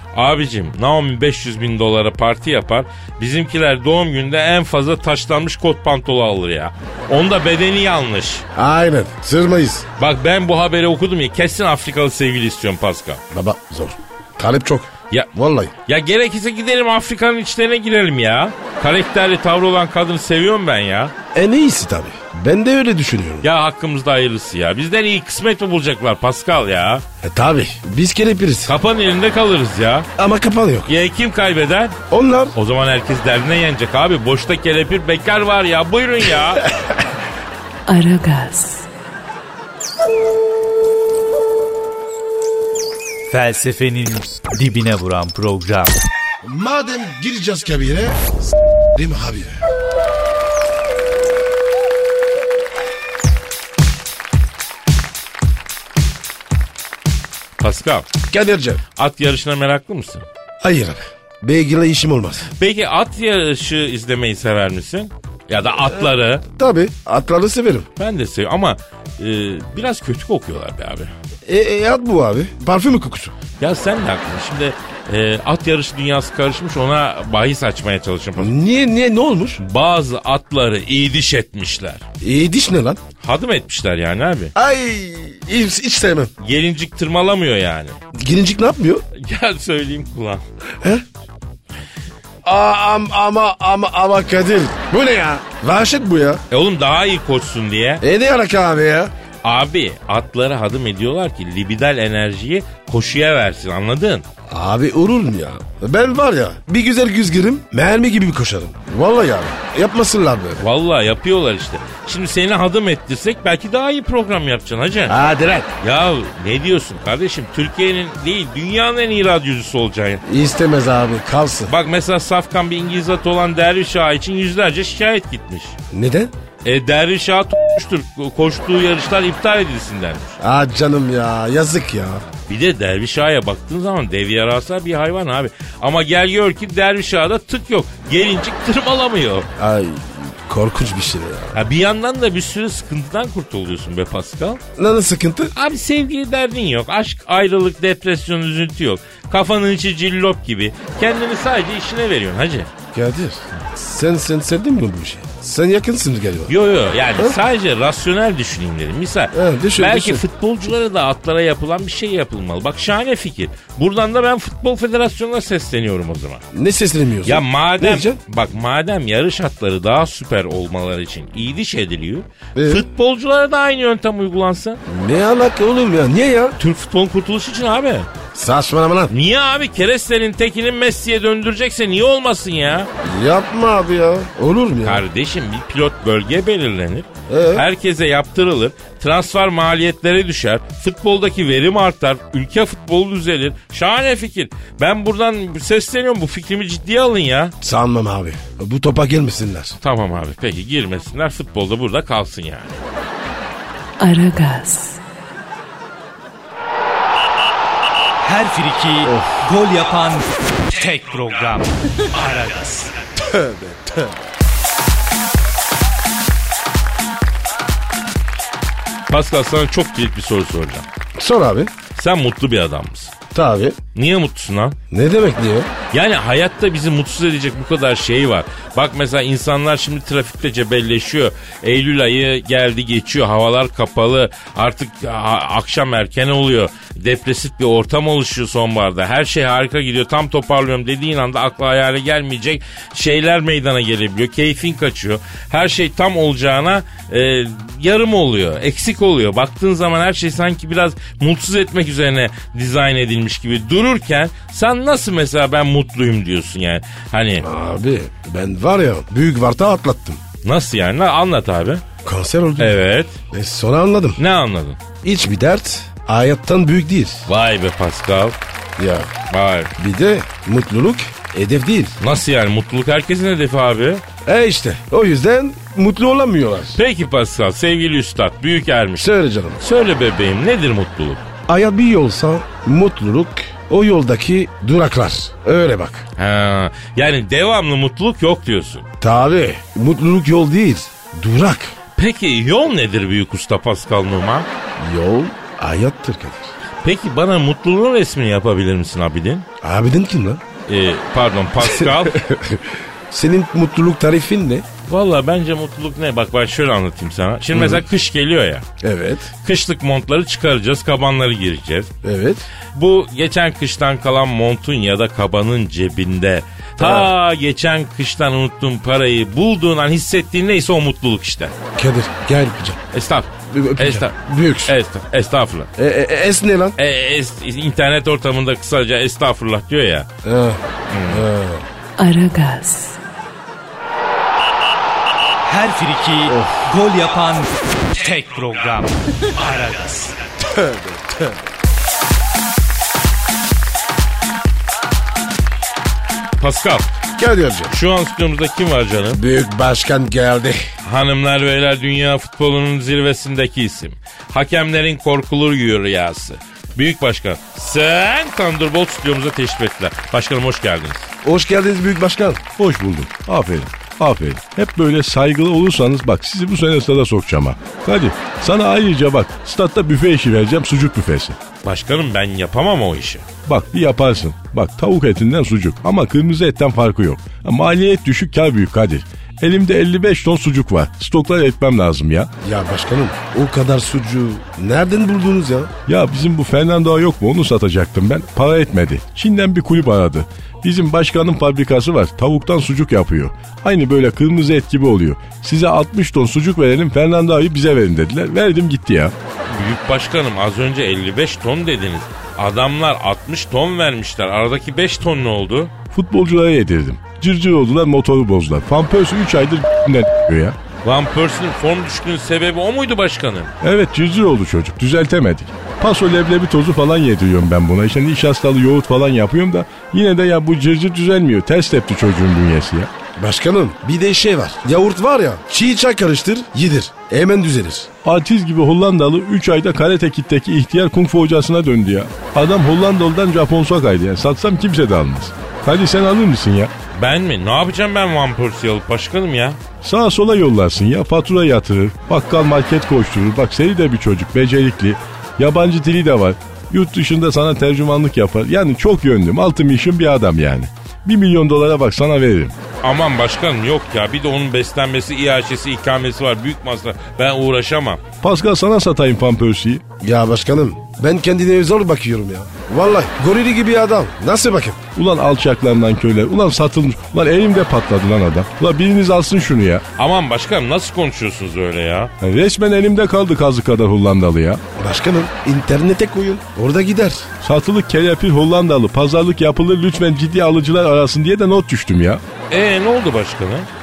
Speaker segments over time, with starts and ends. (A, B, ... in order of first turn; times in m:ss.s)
0:00.1-0:08.4 A
0:08.6-0:09.9 B
0:10.0-0:13.2 A
0:13.3-0:15.7 B
0:15.9-0:21.1 A
0:21.3-0:23.5 B
0:23.4-0:27.0 A
0:27.2-0:28.7 B
0:28.7-0:30.1 A
0:30.2-0:30.9 B
0:30.9-0:32.0 A
0:32.1-0:32.6 B
0:32.6-0:36.7 A
0:37.9-0:38.9 C
0:43.3-0:46.0 D
0:46.4-0:48.3 B
0:48.9-0:49.6 B
0:57.6-0:58.1 A
0:58.3-0:58.8 B
0:59.0-1:00.3 A
1:00.6-1:02.5 B
1:02.5-1:06.4 A
1:06.6-1:07.9 B
1:08.0-1:11.1 A
1:11.5-1:13.4 B
1:13.6-1:18.5 A
1:18.4-1:19.6 B
1:19.6-1:22.0 A
1:22.2-1:23.0 B
1:23.2-1:24.5 A
1:24.6-1:26.3 B
1:26.4-1:28.0 A
1:28.2-1:29.0 B
1:29.2-1:30.4 A
1:32.4-1:36.4 B
1:36.5-1:38.0 A
1:38.0-1:39.1 B
1:39.4-1:44.2 A
1:44.5-1:50.6 B
1:50.6-1:55.2 A
1:55.1-1:55.7 B
1:55.8-2:00.2 A
2:00.2-2:01.7 B
2:01.7-2:05.8 A
2:05.9-2:06.3 B
2:06.6-2:10.4 A
2:10.4-2:12.2 B
2:12.5-2:19.5 A
2:19.6-2:21.6 B
2:21.5-2:24.6 A
2:24.8-2:25.5 B
2:25.5-2:32.7 A
2:32.9-2:36.5 B
2:36.5-2:46.4 A
2:39.3-2:40.2 B
2:46.5-2:48.2 B
2:47.2-2:54.8 A
2:52.6-2:52.8 B
2:54.9-2:56.6 B
2:56.6-2:58.1 A
2:58.3-2:59.1 B
2:59.1-3:02.9 A
3:03.0-3:05.0 B
3:04.8-3:17.6 A
3:07.3-3:07.6 B
3:17.6-3:19.8 B
3:19.8-3:22.8 A
3:24.0-3:25.0 C
3:28.2-3:33.0 D
3:29.0-3:29.4 B
3:33.2-3:34.2 B
3:39.1-3:40.9 A
3:41.2-3:41.7 B
3:41.9-3:43.1 A
3:43.3-3:43.8 B
3:44.0-3:44.8 A
3:44.9-3:45.7 B
3:45.9-4:17.5 A
4:17.4-4:20.2 B
4:20.4-4:21.8 A
4:22.0-4:22.8 B
4:22.6-4:23.2 A
4:23.3-4:24.2 B
4:24.2-4:24.8 A
4:25.0-4:27.3 B
4:27.3-4:28.4 A
4:28.8-4:29.1 B
4:29.3-4:29.7 A
4:29.8-4:32.0 B
4:32.0-4:34.0 A
4:34.2-4:36.8 B
4:36.8-4:39.1 A
4:39.0-4:39.6 B
4:39.6-4:41.2 A
4:41.5-4:46.0 B
4:46.2-4:48.9 A
4:49.0-4:51.7 B
4:52.0-4:54.5 A
4:54.8-4:56.5 B
4:56.8-4:59.5 A
4:59.6-5:00.4 B
5:00.7-5:02.2 A
5:01.6-5:04.7 B
5:04.9-5:08.7 A
5:07.5-5:07.8 B
5:08.8-5:09.3 B
5:09.4-5:11.9 A
5:12.0-5:12.5 B
5:12.7-5:21.5 A
5:16.8-5:17.1 B
5:21.8-5:22.8 B
5:22.9-5:25.7 A
5:23.5-5:24.8 B
5:25.8-5:26.8 B
5:26.8-5:30.1 A
5:30.2-5:31.7 B
5:30.9-5:31.3 A
5:32.0-5:33.0 C
5:35.4-5:40.2 D
5:36.3-5:36.7 B
5:40.4-5:41.4 B
5:46.4-5:46.9 A
5:47.2-5:47.7 B
5:47.7-5:49.2 A
5:49.1-5:50.6 B
5:50.8-6:01.1 A
6:01.2-6:02.4 B
6:02.6-6:11.4 E
6:11.6-6:13.3 A
6:13.5-6:22.3 E
6:22.4-6:25.7 B
6:25.9-6:39.1 E
6:39.5-6:45.7 A
6:45.9-6:50.6 E
6:50.8-6:53.5 A
6:53.6-7:02.9 E
7:03.2-7:07.9 B
7:08.0-7:16.7 E
7:16.9-7:19.6 A
7:19.8-7:32.6 E
7:32.8-7:38.0 A
7:38.2-7:39.8 E
7:40.0-7:44.8 B
7:45.0-7:49.8 E
7:50.0-7:52.1 A
7:52.2-7:54.6 E
7:54.8-7:57.3 B
7:57.4-8:02.2 E
8:02.5-8:03.7 A